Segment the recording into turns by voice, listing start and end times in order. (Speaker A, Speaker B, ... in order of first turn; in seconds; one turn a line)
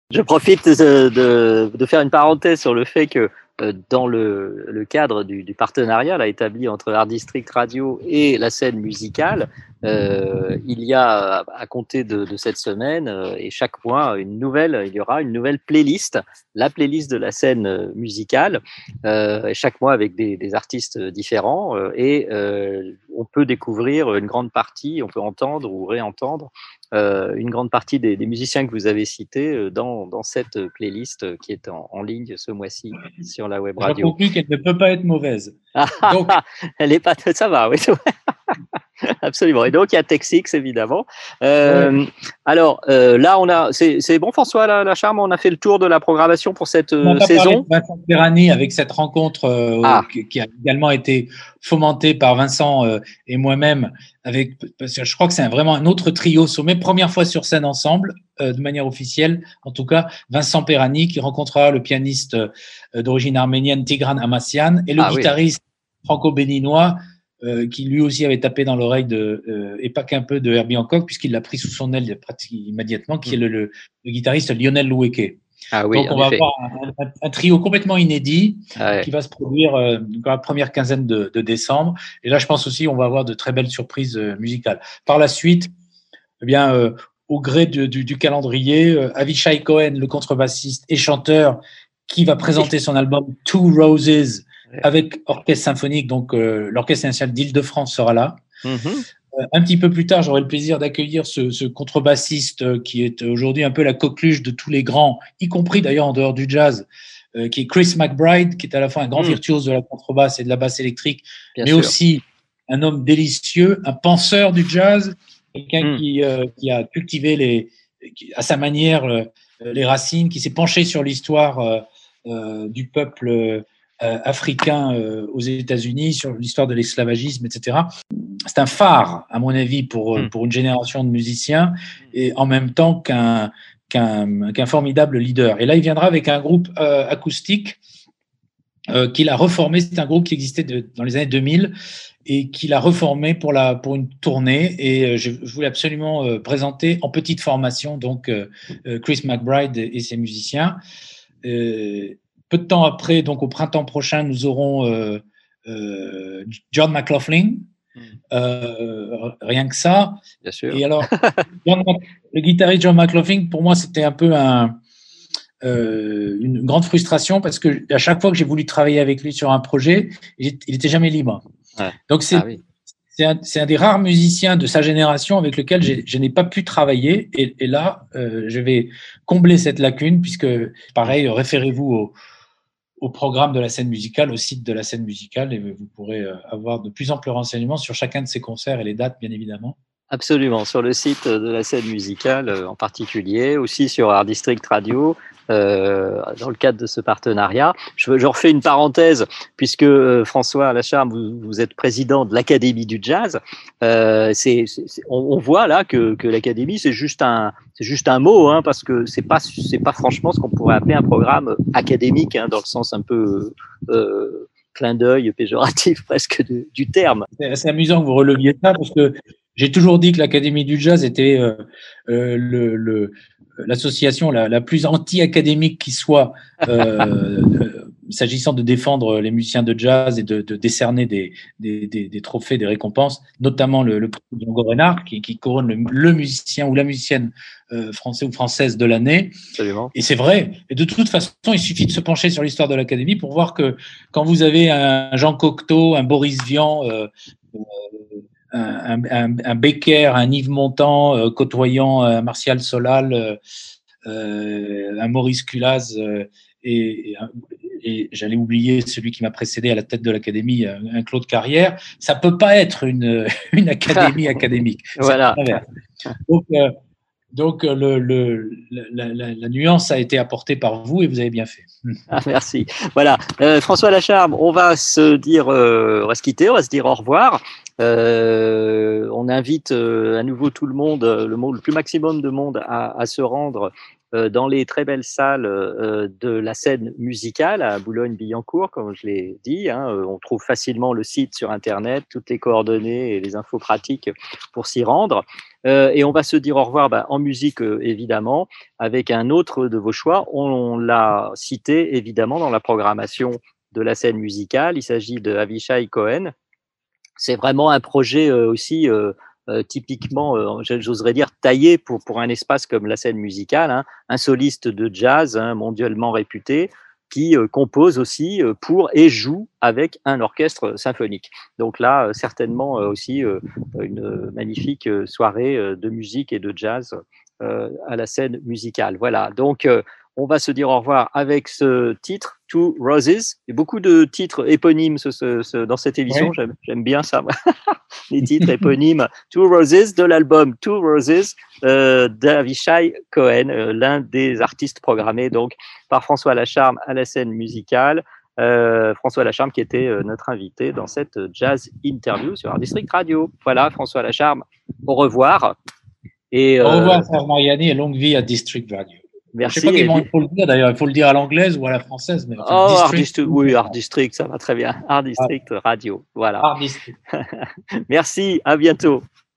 Speaker A: 0.1-34.1
Speaker B: 33.8-36.4
Speaker A: 35.8-38.0
Speaker A: 39.0-47.6
Speaker B: 41.6-42.0
Speaker B: 47.0-75.4
Speaker A: 65.0-65.3
Speaker A: 75.7-76.5
Speaker B: 75.9-85.7
Speaker A: 78.8-79.1
Speaker B: 86.4-98.4
Speaker A: 98.6-99.0
Speaker B: 99.4-127.9
Speaker A: 111.6-111.9
Speaker B: 128.5-137.8
Speaker B: 138.9-141.7
Speaker B: 142.2-150.8
Speaker B: 151.4-157.7
Speaker B: 158.3-164.8
Speaker A: 160.4-161.5
Speaker B: 165.6-171.4
Speaker A: 171.8-172.6
Speaker B: 172.1-172.5
Speaker B: 173.1-182.1
Speaker B: 183.0-189.8
Speaker A: 190.1-217.3
Speaker B: 217.4-239.3
Speaker A: 239.5-239.9
Speaker B: 239.9-253.4
Speaker B: 254.1-265.6
Speaker A: 265.0-265.4
Speaker B: 266.3-266.8
Speaker B: 267.3-271.7
Speaker A: 272.1-306.3
Speaker A: 307.2-355.6
Speaker B: 338.2-338.7
Speaker A: 356.3-357.1
Speaker B: 356.6-363.8
Speaker A: 359.4-360.1
Speaker A: 362.4-366.5
Speaker B: 366.4-366.9
Speaker A: 367.2-369.0